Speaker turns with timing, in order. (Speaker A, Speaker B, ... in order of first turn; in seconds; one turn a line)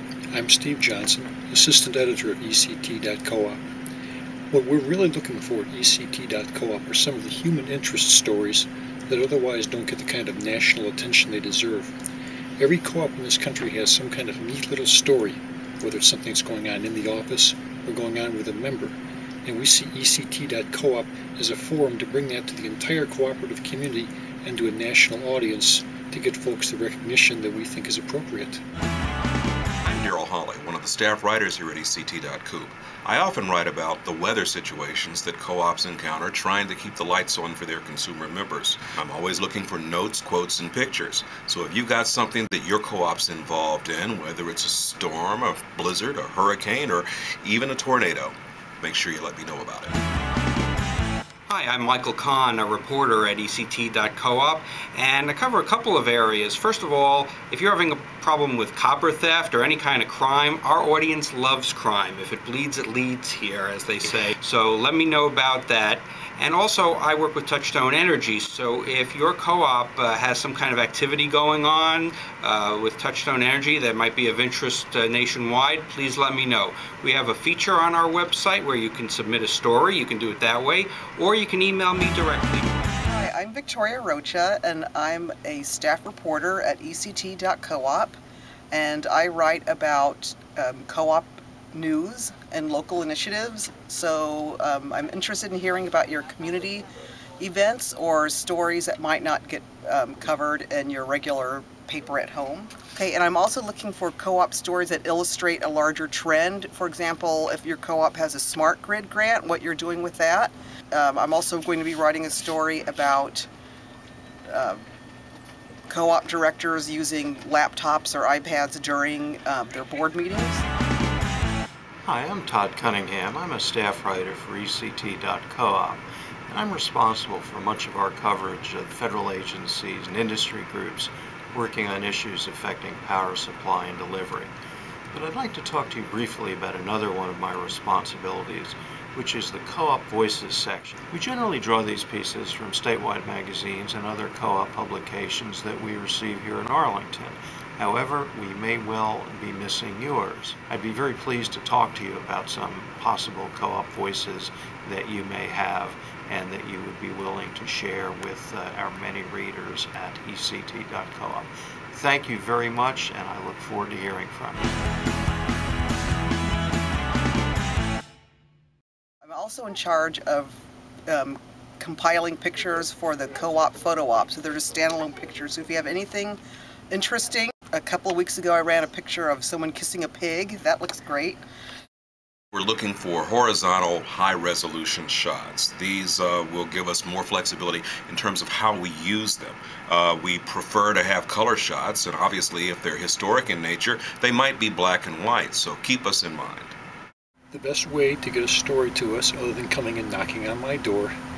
Speaker A: 0.3-3.6
Speaker A: 4.5-11.9
Speaker A: 12.6-28.6
Speaker B: 29.9-49.9
Speaker C: 51.5-82.9
Speaker D: 83.0-88.2
Speaker D: 88.7-113.5
Speaker D: 114.5-114.8
Speaker D: 115.9-120.7
Speaker E: 122.0-134.5
Speaker E: 135.1-164.7
Speaker D: 169.2-176.4
Speaker D: 176.9-181.4
Speaker B: 182.5-196.8
Speaker A: 197.5-201.2